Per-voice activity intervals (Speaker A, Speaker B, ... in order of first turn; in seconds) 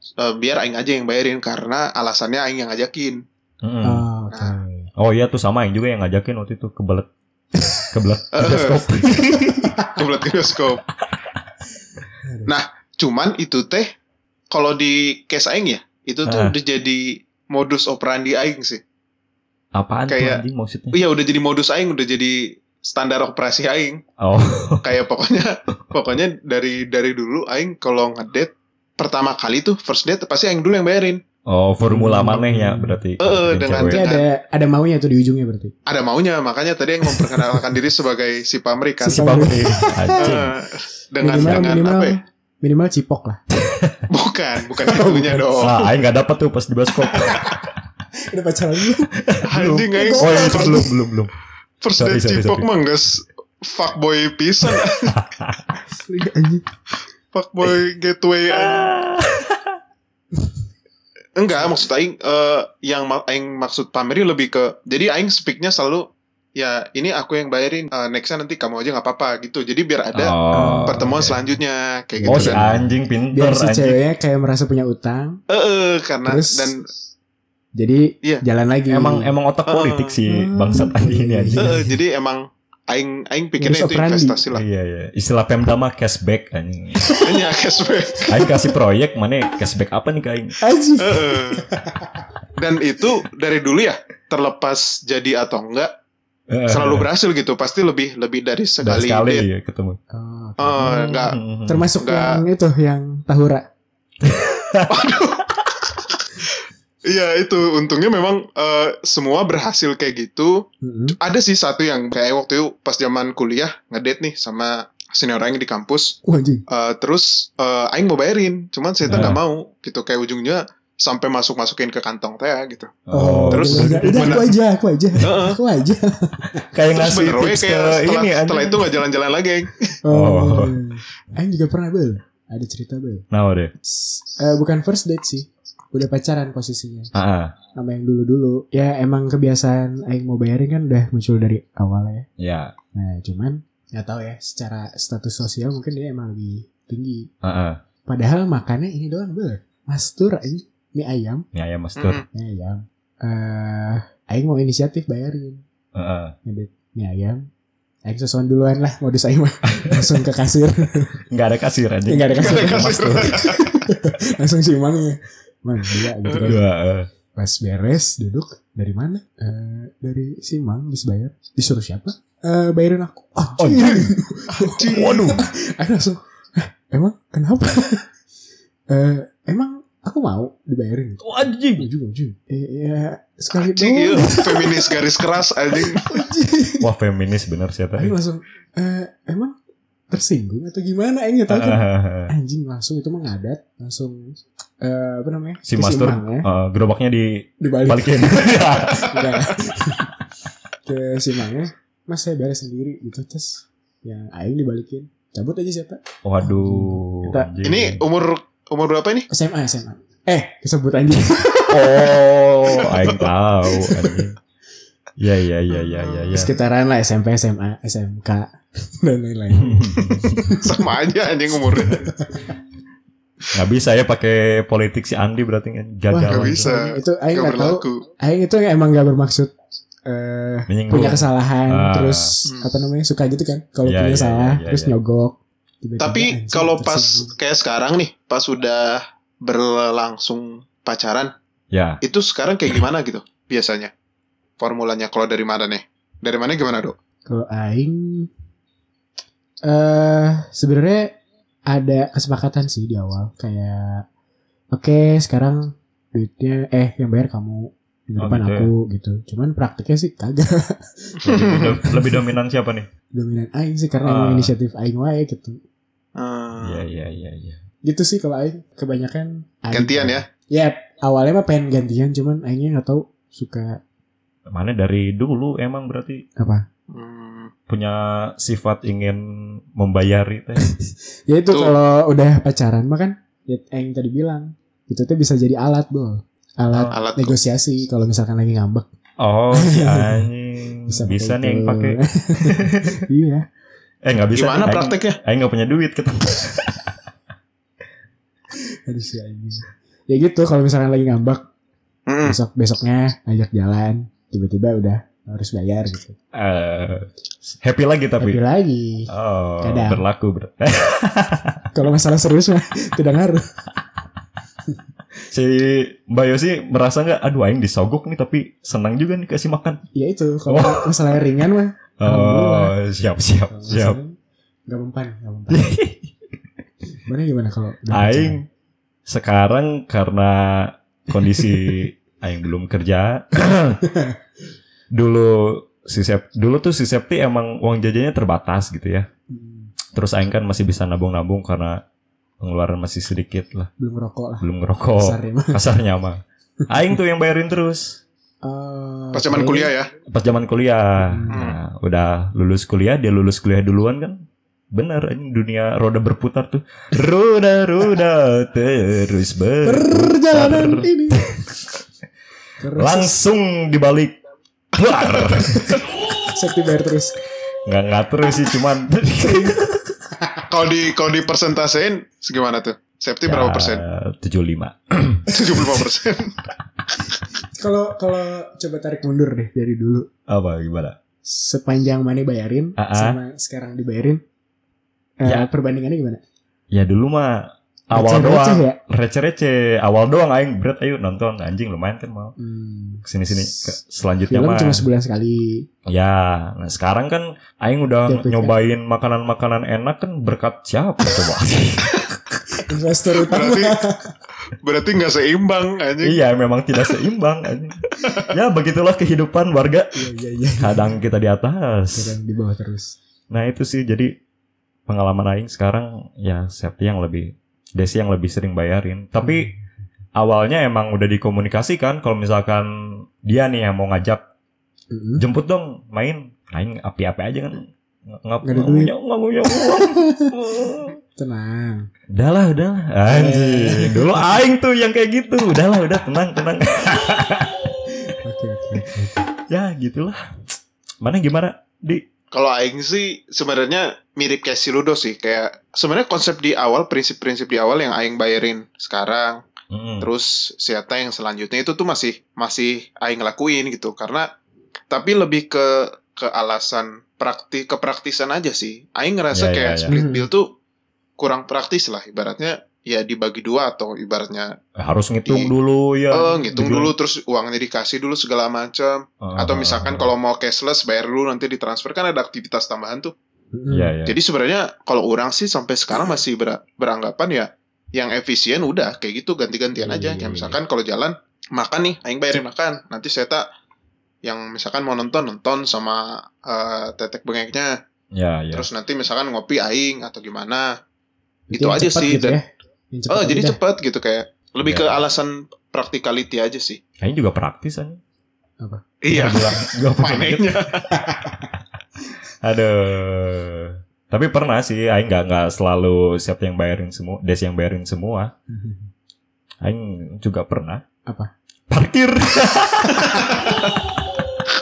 Speaker A: 0.2-3.2, 4.3-4.6, 8.3-8.9, 9.9-10.8, 12.5-13.9, 14.5-18.8, 20.1-24.0, 24.8-31.2, 33.2-34.3, 35.9-39.5, 40.2-42.2, 44.1-45.8, 49.5-50.9, 51.8-55.1, 57.3-58.9, 61.4-72.7, 75.5-76.8, 79.7-80.2, 81.6-84.6, 87.2-88.4, 91.0-91.6, 92.6-95.9, 96.7-99.5, 100.6-101.4, 102.0-102.4, 104.9-110.7, 111.2-123.0, 123.5-124.5, 125.2-125.6, 126.9-130.0, 152.0-152.2, 162.4-163.6, 166.2-166.5, 174.6-175.4, 183.8-186.2, 207.6-209.3, 215.8-216.5, 220.6-222.1, 226.3-228.0, 236.0-241.3, 242.0-243.9, 244.6-246.9, 261.3-261.8, 266.2-266.9, 269.7-270.3, 276.9-277.5, 286.9-287.4, 294.4-295.2, 302.1-302.4, 349.1-349.9, 351.3-351.6, 370.5-373.8, 375.3-376.4, 403.2-403.8, 404.6-406.2, 442.3-449.4, 450.0-454.3, 454.9-460.5, 461.2-464.5, 465.3-465.5, 466.1-473.1, 474.1-483.4, 484.2-487.7, 488.5-490.7, 491.5-492.4, 493.1-496.8, 499.0-500.9
Speaker B: 3.6-4.1, 5.0-7.1, 7.8-9.7, 16.3-16.6, 19.8-21.0, 24.2-24.9, 31.5-34.0, 39.1-40.5, 41.4-41.8, 43.6-44.0, 45.6-47.6, 49.2-51.3, 52.0-52.7, 54.7-55.6, 58.5-59.8, 70.1-71.4, 72.3-74.0, 78.9-81.8, 84.5-87.0, 88.3-90.5, 96.5-97.1, 98.8-100.0, 101.2-101.9, 104.2-105.1, 119.1-119.4, 123.1-124.5, 126.6-128.9, 130.1-130.8, 133.3-133.7, 137.1-137.6, 142.4-142.7, 147.4-147.8, 151.5-152.2, 155.9-156.3, 159.7-160.1, 161.3-163.4, 166.4-167.1, 173.6-174.1, 174.9-175.4, 181.2-181.9, 186.8-188.1, 191.5-192.3, 195.7-199.1, 206.2-208.0, 211.7-214.3, 215.2-216.5, 219.6-220.4, 223.5-226.7, 230.7-232.3, 233.8-234.9, 241.7-242.0, 258.2-258.7, 261.2-262.9, 264.0-264.5, 266.6-267.6, 274.5-276.2, 277.7-280.7, 286.7-287.0, 289.2-292.9, 294.0-296.8, 306.3-308.4, 309.1-311.6, 315.3-319.8, 320.5-320.9, 322.0-324.0, 325.5-326.1, 327.9-328.4, 329.1-333.8, 334.9-339.1, 339.9-341.8, 342.4-343.7, 344.4-348.0, 350.1-361.5, 362.8-364.2, 364.8-365.8, 367.7-369.7, 373.3-375.8, 380.3-381.0, 382.8-383.2, 386.7-392.4, 393.1-394.9, 395.9-402.0, 406.0-409.9, 410.6-412.2, 413.3-414.1, 414.9-419.5, 420.2-424.2, 425.2-431.0, 432.1-437.7, 439.5-442.0, 449.7-450.1, 459.3-459.9, 464.8-466.9, 469.2-470.1, 473.7-474.2, 488.1-488.7, 494.6-495.0, 497.0-498.0, 499.1-500.6, 502.4-508.3, 509.6-510.8, 511.7-513.4
Speaker C: 3.8-4.9, 9.3-10.0, 12.2-12.5, 31.9-33.0, 33.8-35.8, 37.1-37.6, 39.0-40.4, 41.2-43.4, 44.7-45.7, 47.1-47.6, 48.3-49.1, 49.9-50.9, 55.8-56.7, 70.5-71.3, 72.2-75.4, 76.2-76.7, 77.8-79.3, 80.3-82.0, 83.6-84.4, 90.6-92.3, 100.1-103.7, 110.8-111.2, 116.2-116.6, 123.1-126.7, 130.0-133.2, 133.8-137.1, 137.8-142.3, 142.9-147.3, 148.1-151.4, 152.3-155.6, 156.4-157.5, 158.1-161.2, 162.1-166.6, 167.4-178.1, 178.9-185.0, 185.8-186.9, 188.0-189.6, 190.1-196.5, 197.6-200.2, 200.9-207.5, 209.3-212.1, 213.7-214.2, 216.3-220.9, 221.7-222.6, 226.1-229.5, 230.1-237.3, 247.3-248.3, 249.7-254.1, 254.7-262.3, 263.1-265.6, 267.8-273.8, 276.4-276.6, 280.6-288.9, 289.5-290.3, 290.9-293.5, 298.9-301.5, 302.2-306.2, 308.2-310.0, 311.7-313.5, 319.9-322.8, 323.5-324.1, 324.7-325.7, 327.1-328.4, 333.8-334.2, 339.3-339.7, 343.8-344.5, 345.0-345.6, 348.4-349.7, 351.0-351.4, 359.6-361.2, 362.6-363.1, 365.5-367.2, 369.2-370.4, 377.6-380.1, 381.2-384.2, 385.2-386.2, 387.9-388.8, 392.4-393.8, 394.3-395.7, 398.1-398.6, 402.6-404.2, 409.9-411.0, 411.9-413.0, 419.2-419.6, 424.9-425.2, 428.4-428.9, 429.5-430.3, 431.2-431.9, 433.1-434.3, 438.0-439.3, 459.9-460.3, 473.5-473.9, 479.8-480.6, 491.5-493.6, 500.9-501.5, 508.5-508.9, 512.9-513.4